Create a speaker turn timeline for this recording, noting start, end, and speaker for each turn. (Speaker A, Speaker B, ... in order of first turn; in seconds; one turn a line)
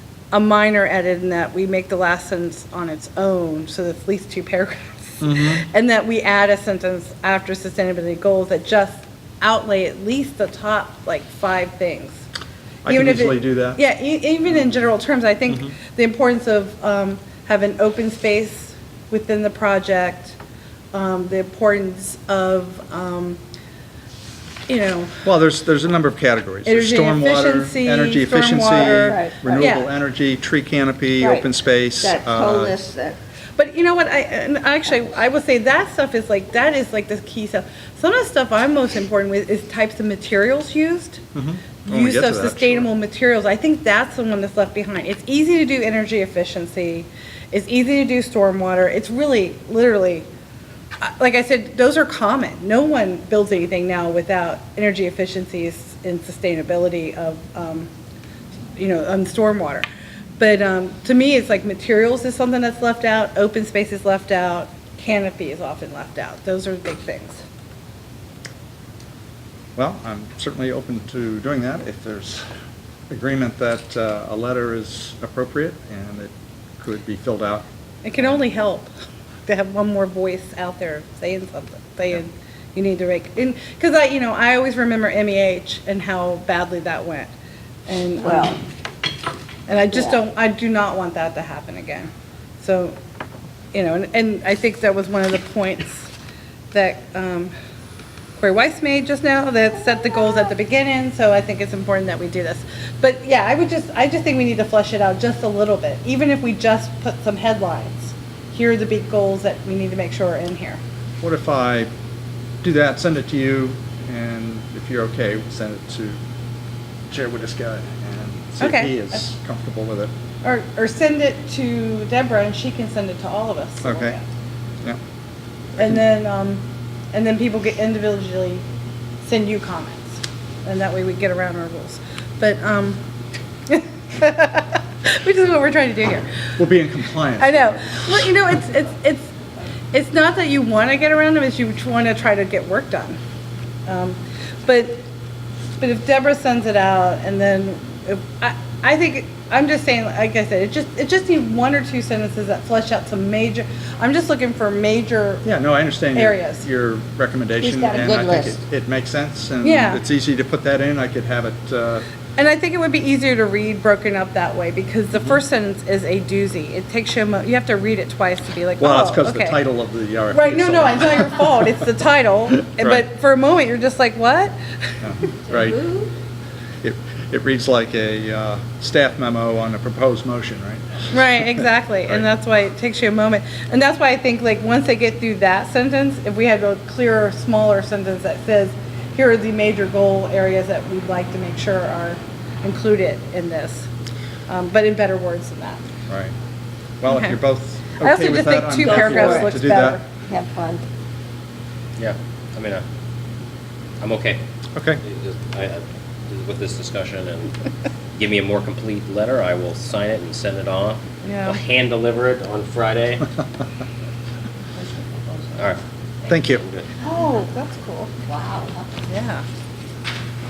Speaker A: 0.3-12.2
Speaker B: 5.2-5.7
Speaker B: 12.8-13.8
Speaker A: 12.9-20.4
Speaker A: 20.9-23.4
Speaker A: 24.7-25.2
Speaker B: 25.2-32.7
Speaker A: 26.6-29.9
Speaker C: 28.7-29.7
Speaker C: 31.2-31.5
Speaker C: 32.0-33.2
Speaker A: 33.6-41.2
Speaker B: 41.3-42.9
Speaker A: 41.9-50.3
Speaker A: 51.0-57.9
Speaker A: 58.8-59.9
Speaker A: 60.4-67.4
Speaker B: 69.8-72.4
Speaker B: 73.1-77.7
Speaker A: 78.0-78.9
Speaker A: 79.5-87.3
Speaker A: 87.9-88.6
Speaker C: 88.2-88.6
Speaker A: 89.7-93.0
Speaker C: 89.9-90.2
Speaker A: 93.7-96.1
Speaker A: 96.7-97.5
Speaker A: 98.4-110.8
Speaker B: 111.2-111.9
Speaker B: 112.6-116.2
Speaker B: 117.1-120.1
Speaker A: 118.6-119.2
Speaker A: 120.4-124.2
Speaker B: 123.8-124.1
Speaker A: 125.8-128.6
Speaker A: 129.2-133.0
Speaker A: 133.7-136.3
Speaker B: 136.6-138.5
Speaker A: 137.4-139.3
Speaker A: 139.9-143.2
Speaker A: 143.9-145.1
Speaker A: 145.8-155.4
Speaker B: 155.4-162.1
Speaker A: 156.1-156.6
Speaker C: 157.6-158.6
Speaker A: 159.6-160.0
Speaker A: 162.4-169.6
Speaker B: 168.8-171.7
Speaker A: 170.3-174.5
Speaker B: 172.7-173.0
Speaker B: 175.0-175.8
Speaker C: 175.5-176.1
Speaker B: 176.8-182.2
Speaker A: 181.1-193.9
Speaker A: 194.5-195.8
Speaker B: 197.0-200.0
Speaker A: 197.1-197.3
Speaker A: 198.0-200.0
Speaker C: 198.8-199.5
Speaker C: 200.2-200.8
Speaker D: 202.0-202.8
Speaker D: 204.0-204.4
Speaker B: 204.7-205.0
Speaker D: 205.0-213.3
Speaker A: 211.2-211.6
Speaker C: 214.8-215.6
Speaker D: 215.5-215.8
Speaker B: 216.3-216.6
Speaker D: 216.4-216.9
Speaker A: 217.0-218.1
Speaker C: 217.1-217.4
Speaker C: 218.2-219.0
Speaker A: 219.1-219.4